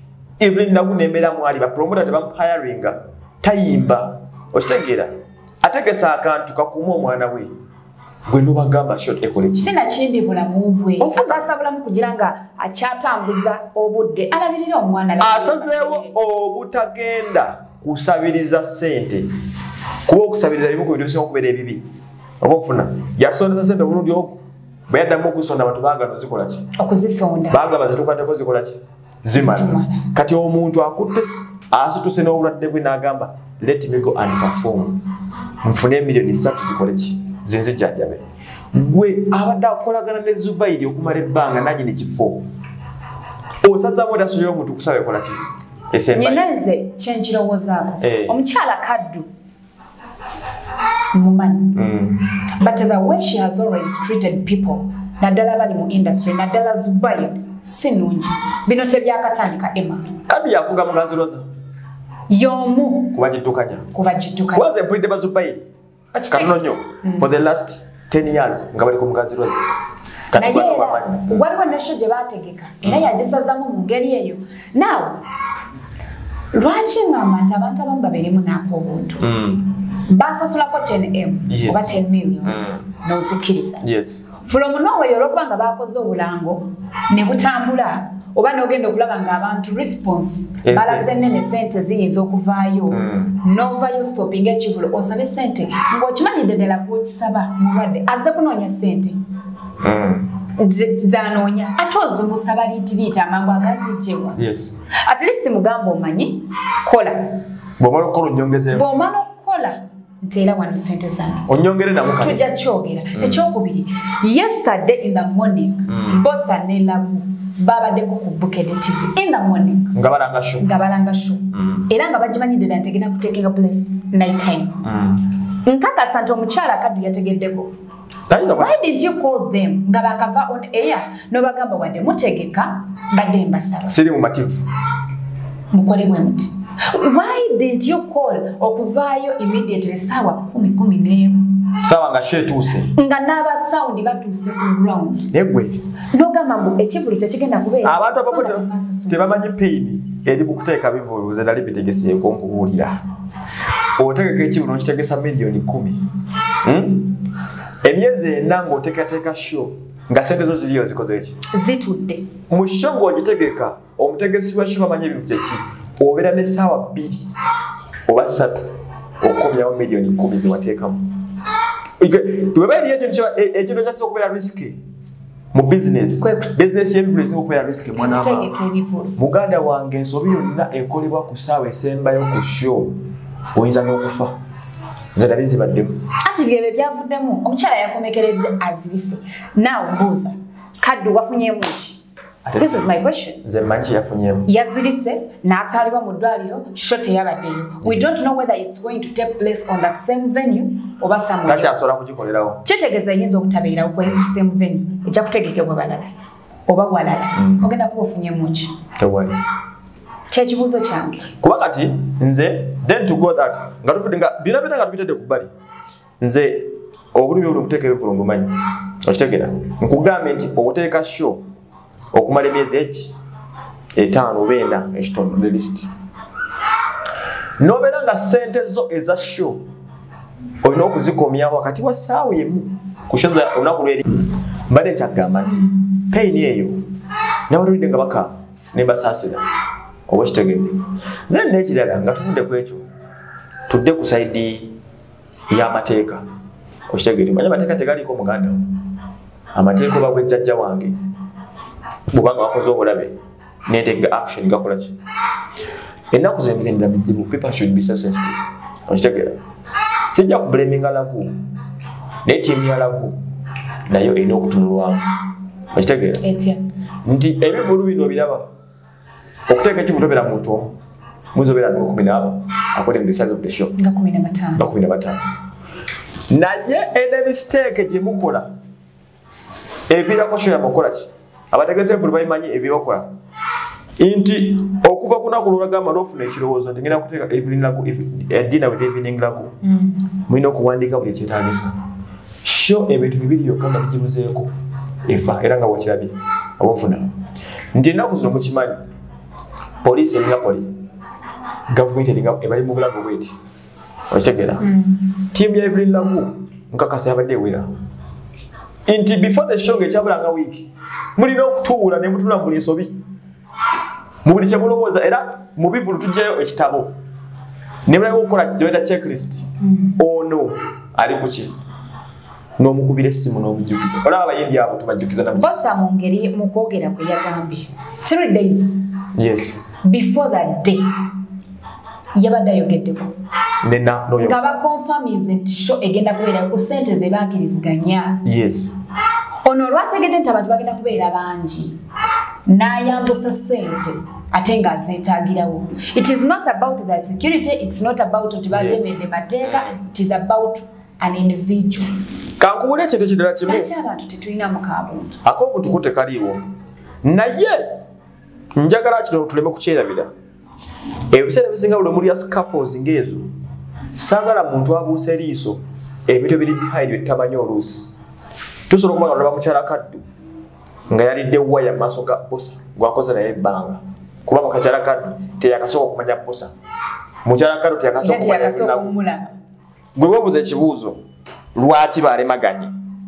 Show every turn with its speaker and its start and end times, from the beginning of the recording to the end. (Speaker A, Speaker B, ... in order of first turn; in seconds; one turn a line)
Speaker A: 0.4-7.5
Speaker A: 8.3-9.7
Speaker B: 9.6-16.1
Speaker A: 11.0-11.5
Speaker A: 15.2-19.3
Speaker A: 20.1-21.8
Speaker A: 22.4-26.7
Speaker B: 26.7-27.6
Speaker A: 27.5-35.0
Speaker B: 29.3-30.1
Speaker A: 35.6-42.5
Speaker A: 43.6-46.4
Speaker B: 46.1-49.3
Speaker A: 48.0-48.4
Speaker B: 51.1-51.8
Speaker A: 51.7-52.3
Speaker B: 52.6-60.0
Speaker A: 60.3-61.4
Speaker B: 62.3-63.1
Speaker A: 63.1-63.9
Speaker B: 63.9-64.7
Speaker A: 64.5-65.6
Speaker B: 66.1-67.3
Speaker A: 66.3-69.6
Speaker A: 70.3-71.5
Speaker B: 70.3-75.2
Speaker A: 72.8-73.1
Speaker B: 76.5-79.3
Speaker A: 79.2-79.8
Speaker B: 79.9-83.8
Speaker A: 81.5-82.8
Speaker A: 83.8-84.3
Speaker B: 84.4-99.2
Speaker A: 90.6-91.1
Speaker A: 92.9-93.4
Speaker A: 99.8-100.4
Speaker B: 100.6-104.4
Speaker A: 104.4-104.7
Speaker B: 105.0-107.3
Speaker A: 107.8-108.9
Speaker B: 108.7-111.5
Speaker A: 111.5-112.5
Speaker B: 112.2-119.9
Speaker A: 113.1-113.4
Speaker A: 115.9-116.2
Speaker A: 119.9-120.7
Speaker B: 120.6-124.8
Speaker A: 121.5-121.9
Speaker A: 124.8-125.3
Speaker B: 125.6-127.7
Speaker A: 128.3-128.8
Speaker B: 128.5-134.0
Speaker A: 133.8-134.6
Speaker B: 135.7-141.6
Speaker A: 141.8-142.9
Speaker B: 142.9-145.3
Speaker A: 145.3-145.8
Speaker B: 146.1-149.3
Speaker A: 147.8-153.0
Speaker A: 154.0-156.0
Speaker A: 156.6-157.2
Speaker A: 157.8-161.4
Speaker B: 161.5-162.3
Speaker A: 162.5-167.2
Speaker A: 168.1-168.7
Speaker A: 169.2-171.1
Speaker A: 172.0-174.8
Speaker A: 175.5-178.5
Speaker B: 176.2-176.5
Speaker B: 177.9-179.1
Speaker A: 179.1-183.0
Speaker A: 183.5-184.3
Speaker A: 185.1-186.1
Speaker B: 186.2-192.0
Speaker A: 192.4-192.9
Speaker B: 192.6-193.4
Speaker A: 193.4-194.5
Speaker B: 194.4-201.7
Speaker A: 197.8-198.1
Speaker A: 201.4-202.6
Speaker B: 202.6-206.1
Speaker B: 206.7-208.7
Speaker A: 207.3-207.7
Speaker A: 209.0-209.4
Speaker B: 210.3-211.3
Speaker A: 211.4-215.5
Speaker A: 216.2-221.4
Speaker A: 222.1-223.1
Speaker A: 223.9-225.9
Speaker A: 227.6-229.6
Speaker A: 230.6-236.8
Speaker A: 237.5-239.4
Speaker A: 240.1-242.9
Speaker A: 243.7-244.7
Speaker A: 245.5-246.2
Speaker A: 246.9-248.7
Speaker A: 249.5-251.0
Speaker A: 252.1-253.2
Speaker A: 253.7-255.0
Speaker A: 256.1-259.4
Speaker A: 260.1-261.4
Speaker A: 262.2-263.2
Speaker A: 263.9-265.1
Speaker A: 265.7-266.2
Speaker B: 266.2-266.6
Speaker A: 267.0-268.5
Speaker A: 269.5-270.8
Speaker A: 271.3-273.7
Speaker B: 273.8-274.7
Speaker A: 274.6-275.2
Speaker A: 276.3-278.5
Speaker A: 279.9-283.1
Speaker A: 284.0-289.5
Speaker B: 289.7-289.9
Speaker A: 290.2-291.8
Speaker A: 292.4-294.5
Speaker A: 295.1-297.1
Speaker A: 297.7-298.8
Speaker A: 299.8-300.7
Speaker A: 301.7-303.3
Speaker A: 304.1-304.6
Speaker B: 304.6-305.0
Speaker A: 305.2-307.7
Speaker A: 308.9-312.9
Speaker A: 314.2-316.9
Speaker A: 317.9-319.4
Speaker B: 319.6-319.9
Speaker A: 320.0-321.5
Speaker A: 322.6-325.5
Speaker B: 325.3-328.9
Speaker A: 329.1-329.6
Speaker B: 329.8-330.9
Speaker B: 332.1-333.1
Speaker A: 333.6-334.6
Speaker B: 334.2-338.2
Speaker A: 338.2-338.8
Speaker B: 339.4-341.7
Speaker B: 342.4-351.9
Speaker A: 348.5-349.8
Speaker A: 352.4-353.7
Speaker B: 353.4-355.2
Speaker A: 355.2-356.4
Speaker A: 357.0-357.8
Speaker A: 358.5-360.1
Speaker A: 361.1-363.3
Speaker A: 363.9-367.9
Speaker A: 368.7-370.0
Speaker A: 370.9-376.5
Speaker A: 377.2-378.9
Speaker B: 378.0-379.3
Speaker A: 379.9-381.0
Speaker A: 381.5-382.7